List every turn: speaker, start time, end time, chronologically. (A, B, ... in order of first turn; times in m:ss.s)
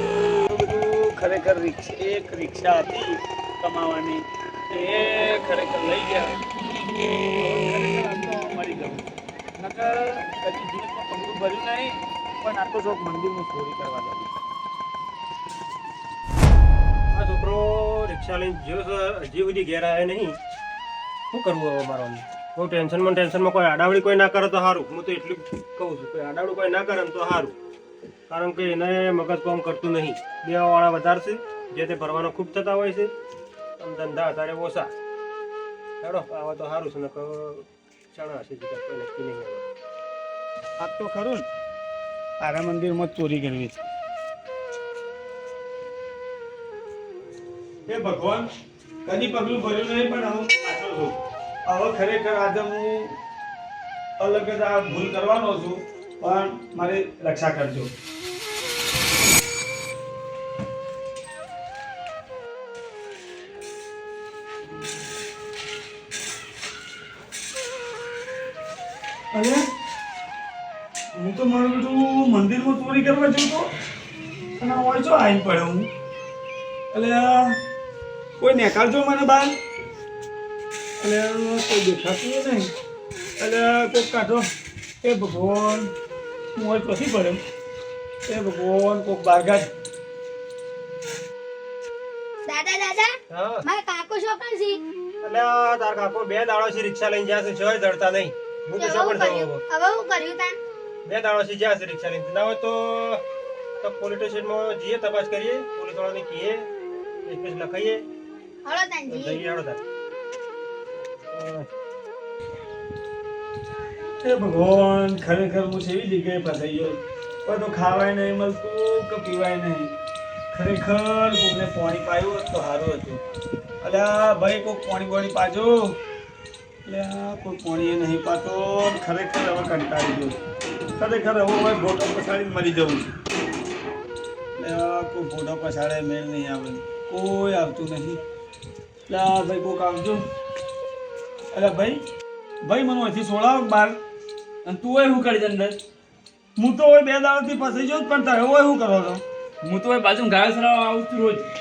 0:00.4-0:09.1 A
0:09.6-0:14.3 A
0:17.1-0:20.4 B
0:21.3-0:27.6 B
0:28.3-0:33.1 B
0:33.8-0:34.9 B
0:36.0-0:39.6 B
0:40.8-0:41.5 A
0:42.4-0:43.8 A
0:47.9-0:48.5 A
0:49.0-0:53.2 A
0:54.2-0:57.9 A
1:09.3-1:09.6 A
1:11.2-1:13.7 A
1:14.6-1:15.9 A
1:16.9-1:17.6 A
1:18.4-1:19.6 A
1:21.0-1:22.7 A
1:23.4-1:24.5 A
1:25.0-1:25.9 A
1:26.6-1:27.4 A
1:28.3-1:29.7 A
1:32.5-1:33.1 C
1:33.3-1:33.6 B
1:33.6-1:34.8 C
1:35.2-1:39.6 B
1:38.8-1:40.6 C
1:41.1-1:43.2 B
1:43.8-1:46.6 B
1:47.2-1:48.0 B
1:48.7-1:49.4 C
1:49.1-1:49.8 B
1:54.2-1:59.9 A
2:00.5-2:03.2 A
2:03.8-2:06.0 A
2:06.9-2:10.4 A
2:11.0-2:13.1 A
2:14.6-2:18.2 A
2:19.1-2:20.2 A
2:21.5-2:22.0 A
2:22.6-2:24.0 A
2:24.6-2:25.8 D
2:26.6-2:29.2 A
2:29.6-2:31.5 D